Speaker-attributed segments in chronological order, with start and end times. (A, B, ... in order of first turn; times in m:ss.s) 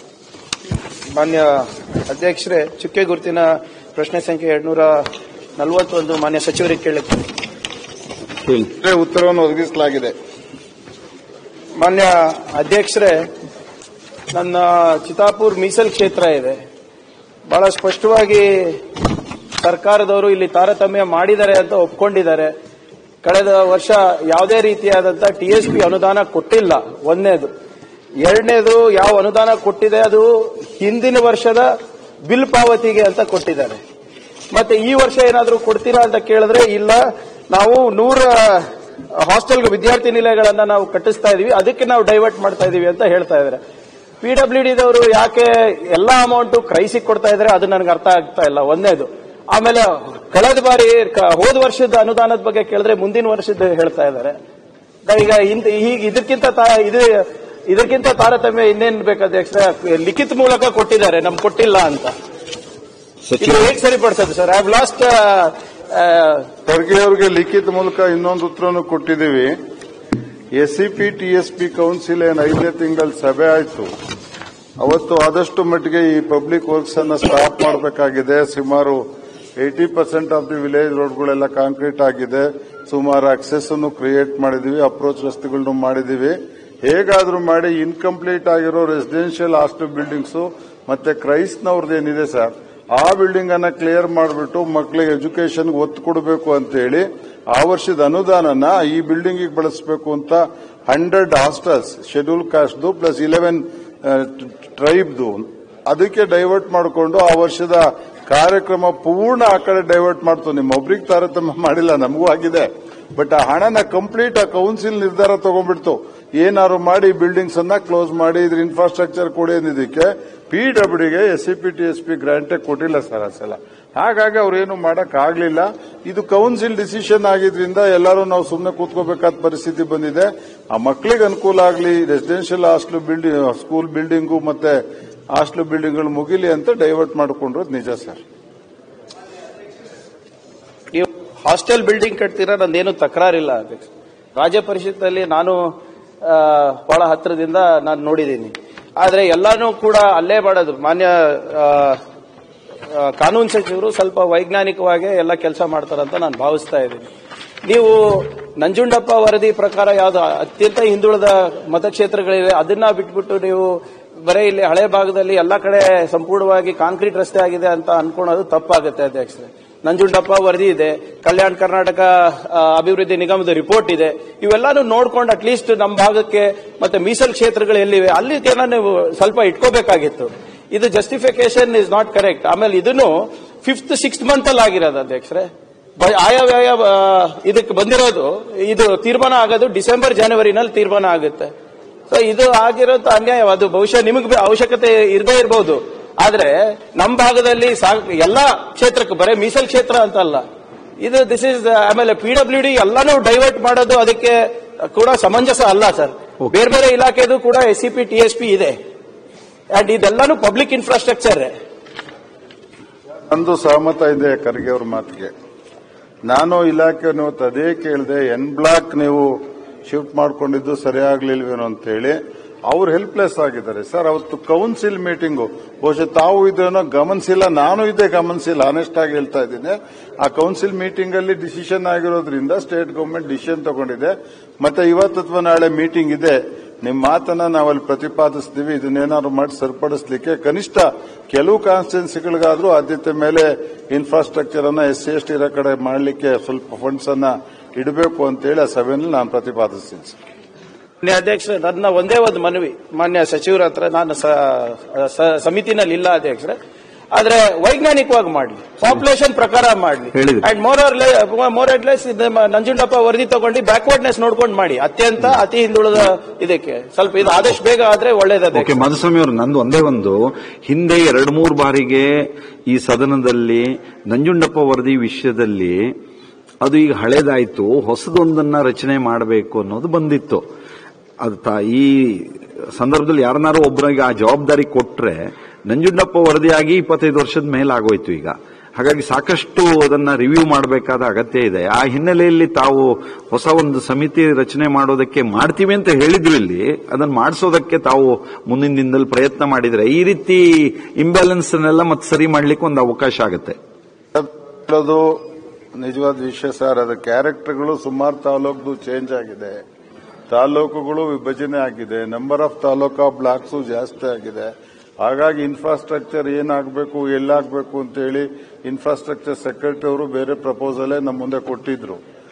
0:01.2-0:05.0 A
0:05.6-0:07.3 A
0:08.4-0:08.7 B
0:08.8-0:10.2 C
0:11.8-0:13.3 A
0:14.3-0:16.6 A
0:17.5-0:18.8 A
0:19.6-0:22.5 A
0:23.2-0:27.5 A
0:28.2-0:31.7 A
0:32.3-0:33.8 A
0:34.5-0:37.0 A
0:37.5-0:38.7 A
0:39.2-0:43.6 A
0:44.2-0:54.4 A
0:55.1-1:02.1 A
1:03.3-1:03.7 B
1:03.4-1:06.5 A
1:06.7-1:09.5 C
1:10.5-1:13.9 C
1:14.8-1:19.0 C
1:19.6-2:14.8 C
2:15.3-2:18.2 C
2:20.9-2:25.6 A
2:26.2-2:32.0 A
2:32.9-2:37.1 A
2:37.7-3:05.5 A
3:06.0-3:11.5 A
3:12.1-3:20.4 A
3:21.0-3:24.4 A
3:24.9-3:28.8 A
3:29.7-3:31.5 A
3:33.3-3:35.3 C
3:36.3-3:39.3 C
3:39.9-4:10.2 C
4:11.0-4:16.6 A
4:17.1-4:28.8 A
4:20.1-4:20.4 B
4:28.5-4:35.8 B
4:36.6-4:40.4 B
4:41.2-5:03.6 B
5:04.1-5:05.2 C
5:05.8-5:09.6 C
5:10.3-5:14.5 C
5:15.0-5:22.0 C